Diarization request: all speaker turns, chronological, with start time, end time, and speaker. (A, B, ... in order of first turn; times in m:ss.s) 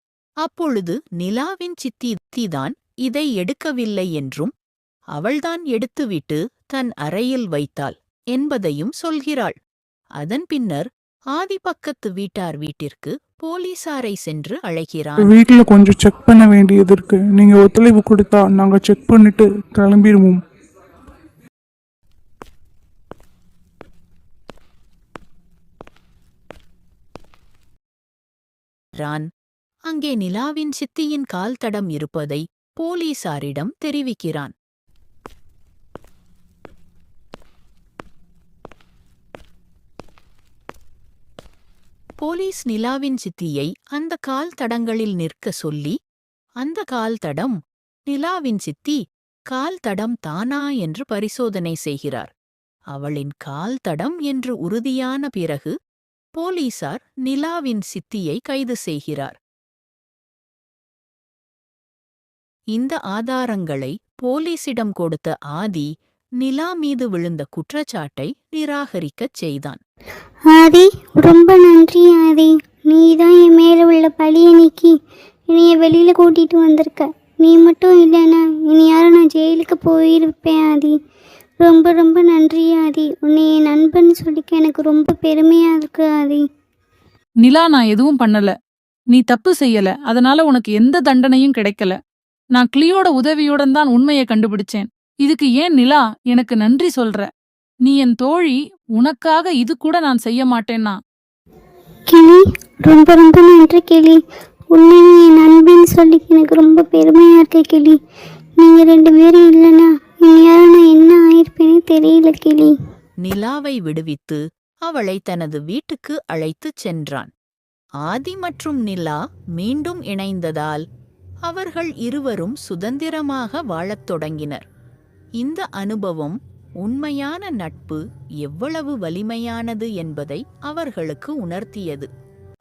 0:00.4-0:04.5 A
0:05.2-0:09.6 A
0:10.2-0:15.3 A
0:15.2-0:20.4 B
0:29.0-0:29.3 A
0:29.9-0:34.5 A
0:42.2-0:46.0 A
0:46.6-0:47.6 A
0:48.1-0:49.0 A
0:49.5-0:52.3 A
0:52.9-0:55.7 A
0:56.4-0:59.4 A
1:02.7-1:05.9 A
1:06.4-1:09.8 A
1:10.6-1:14.9 C
1:15.6-1:20.9 C
1:21.7-1:26.4 C
1:27.4-1:28.6 D
1:29.1-1:32.0 D
1:32.6-1:37.3 D
1:37.8-1:41.0 D
1:42.9-1:44.2 C
1:44.8-1:47.9 C
1:48.7-1:49.7 C
1:50.4-1:52.6 C
1:53.2-1:57.3 A
1:58.0-2:00.8 A
2:01.5-2:04.6 A
2:05.4-2:12.1 A